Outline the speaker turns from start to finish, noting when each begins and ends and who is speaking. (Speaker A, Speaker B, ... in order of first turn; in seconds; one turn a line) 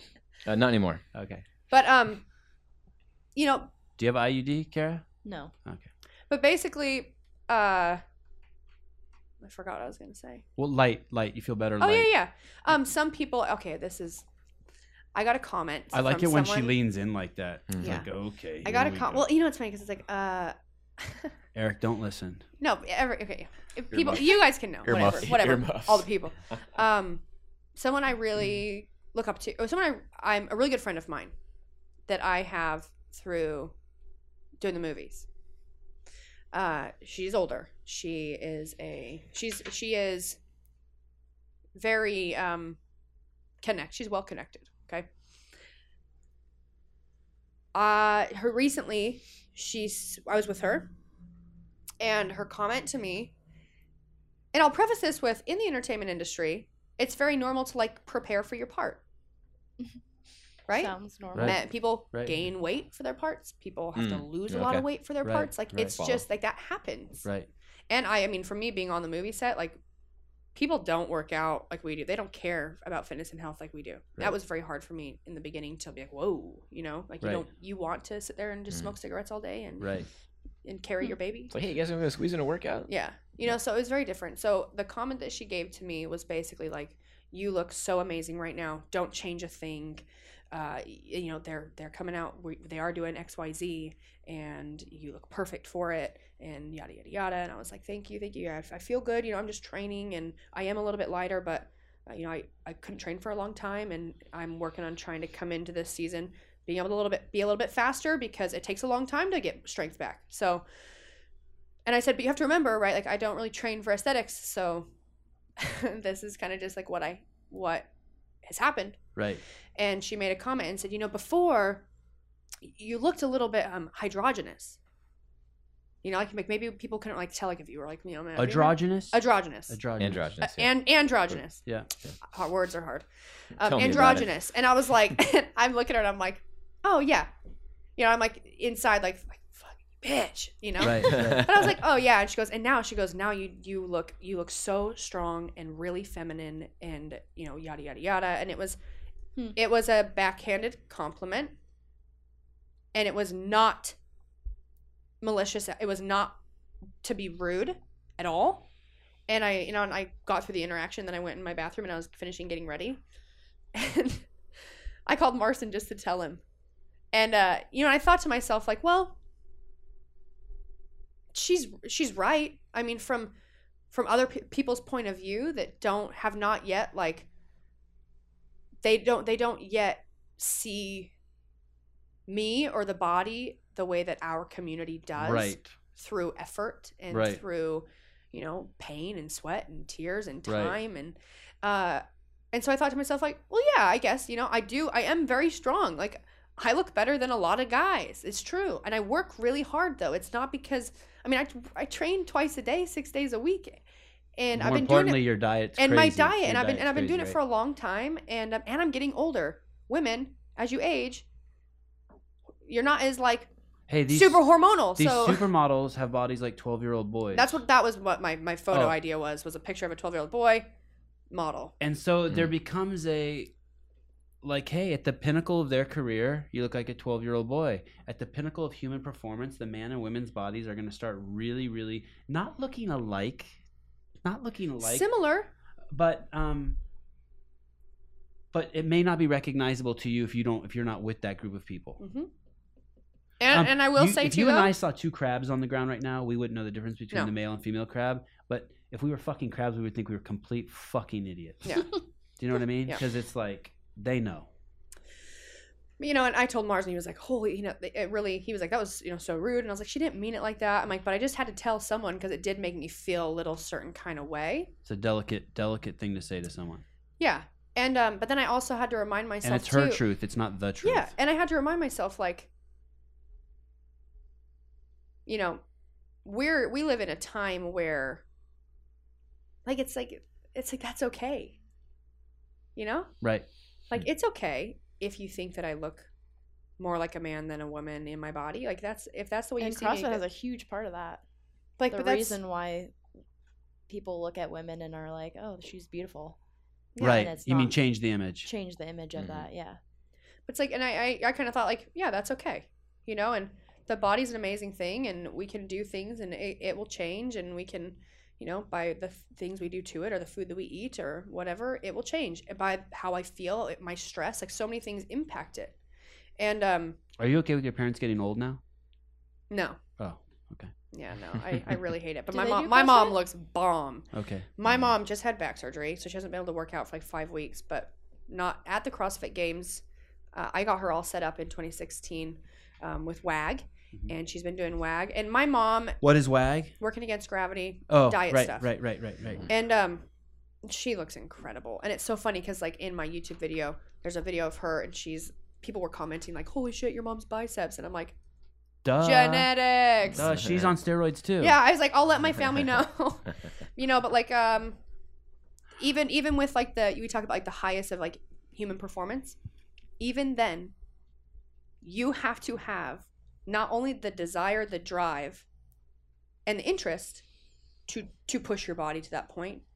Speaker A: 0.5-1.0
Speaker B: 1.1-1.4
Speaker C: 1.7-2.2
Speaker C: 3.3-3.7
Speaker B: 4.0-5.0
Speaker D: 5.2-5.5
Speaker C: 6.3-8.0
Speaker C: 9.4-10.4
Speaker B: 10.6-12.1
Speaker C: 11.8-14.2
Speaker C: 15.1-16.7
Speaker B: 15.9-19.2
Speaker A: 17.7-18.0
Speaker C: 17.8-18.1
Speaker C: 18.6-21.3
Speaker B: 21.5-22.4
Speaker C: 22.6-27.2
Speaker A: 23.9-26.6
Speaker B: 24.9-25.3
Speaker C: 27.8-31.3
Speaker C: 32.1-33.7
Speaker C: 34.6-35.3
Speaker C: 36.5-40.4
Speaker C: 41.8-42.8
Speaker C: 43.6-45.1
Speaker C: 47.7-50.9
Speaker C: 52.0-53.3
Speaker C: 54.5-59.0
Speaker C: 60.7-67.2
Speaker D: 60.7-61.6
Speaker B: 62.1-62.4
Speaker A: 64.0-64.8
Speaker B: 65.2-65.9
Speaker A: 65.8-66.2
Speaker C: 67.9-69.8
Speaker C: 70.5-79.9
Speaker B: 79.8-80.1
Speaker C: 80.6-81.5
Speaker A: 81.5-82.9
Speaker C: 82.9-110.6
Speaker C: 111.8-114.9
Speaker C: 115.6-117.9
Speaker C: 118.4-119.0
Speaker B: 119.2-119.4
Speaker C: 119.8-121.8
Speaker C: 122.6-124.8
Speaker C: 126.0-129.8
Speaker B: 128.3-130.3
Speaker A: 130.0-130.7
Speaker C: 130.4-131.6
Speaker B: 131.6-131.9
Speaker C: 132.2-137.3
Speaker A: 133.6-134.3
Speaker C: 138.0-148.8
Speaker B: 140.8-141.5
Speaker C: 149.5-151.5
Speaker C: 152.9-153.9
Speaker C: 155.2-156.4
Speaker C: 157.0-158.7
Speaker C: 159.3-163.0
Speaker C: 163.7-164.2
Speaker C: 165.1-166.4
Speaker C: 167.1-169.2
Speaker C: 171.3-173.3
Speaker C: 173.9-177.3
Speaker C: 178.8-181.1
Speaker C: 182.3-203.8
Speaker B: 185.2-185.7
Speaker B: 187.1-187.4
Speaker B: 190.4-190.8
Speaker C: 204.3-211.2
Speaker B: 204.5-207.4
Speaker C: 212.6-213.5
Speaker B: 213.9-217.5
Speaker C: 214.1-215.5
Speaker C: 217.3-220.7
Speaker B: 218.7-219.0
Speaker C: 221.3-221.8
Speaker B: 221.8-223.5
Speaker B: 224.4-233.5
Speaker B: 234.2-235.1
Speaker C: 234.8-235.5
Speaker B: 235.9-236.8
Speaker B: 238.5-242.0
Speaker C: 242.0-242.3
Speaker C: 243.4-244.7
Speaker B: 243.5-251.8
Speaker C: 251.6-252.0
Speaker B: 252.4-254.5
Speaker C: 256.0-264.7
Speaker B: 264.8-266.8
Speaker C: 267.2-270.0
Speaker B: 269.4-271.1
Speaker C: 270.8-272.5
Speaker C: 275.2-275.6
Speaker C: 276.2-278.2
Speaker C: 279.6-281.6
Speaker C: 282.8-283.1
Speaker C: 283.9-286.1
Speaker C: 286.8-290.2
Speaker D: 289.6-291.2
Speaker C: 291.8-292.4
Speaker D: 291.9-292.9
Speaker D: 293.9-296.4
Speaker C: 296.9-297.3
Speaker D: 297.0-297.8
Speaker B: 297.0-298.5
Speaker D: 298.4-299.8
Speaker A: 299.1-299.5
Speaker C: 300.5-315.8
Speaker C: 316.4-317.0
Speaker B: 317.2-318.6
Speaker C: 319.5-319.8
Speaker B: 320.0-320.7
Speaker C: 320.9-336.0
Speaker D: 322.3-323.2
Speaker B: 324.1-324.5
Speaker B: 336.0-336.7
Speaker C: 336.8-338.7
Speaker B: 337.9-339.4
Speaker C: 339.5-340.0
Speaker C: 340.6-348.1
Speaker B: 348.8-349.5
Speaker C: 349.0-350.3
Speaker B: 350.1-351.6
Speaker A: 350.2-350.7
Speaker C: 351.4-354.8
Speaker C: 355.8-359.4
Speaker C: 360.0-360.7
Speaker C: 361.8-365.4
Speaker C: 366.4-367.2
Speaker C: 367.9-369.6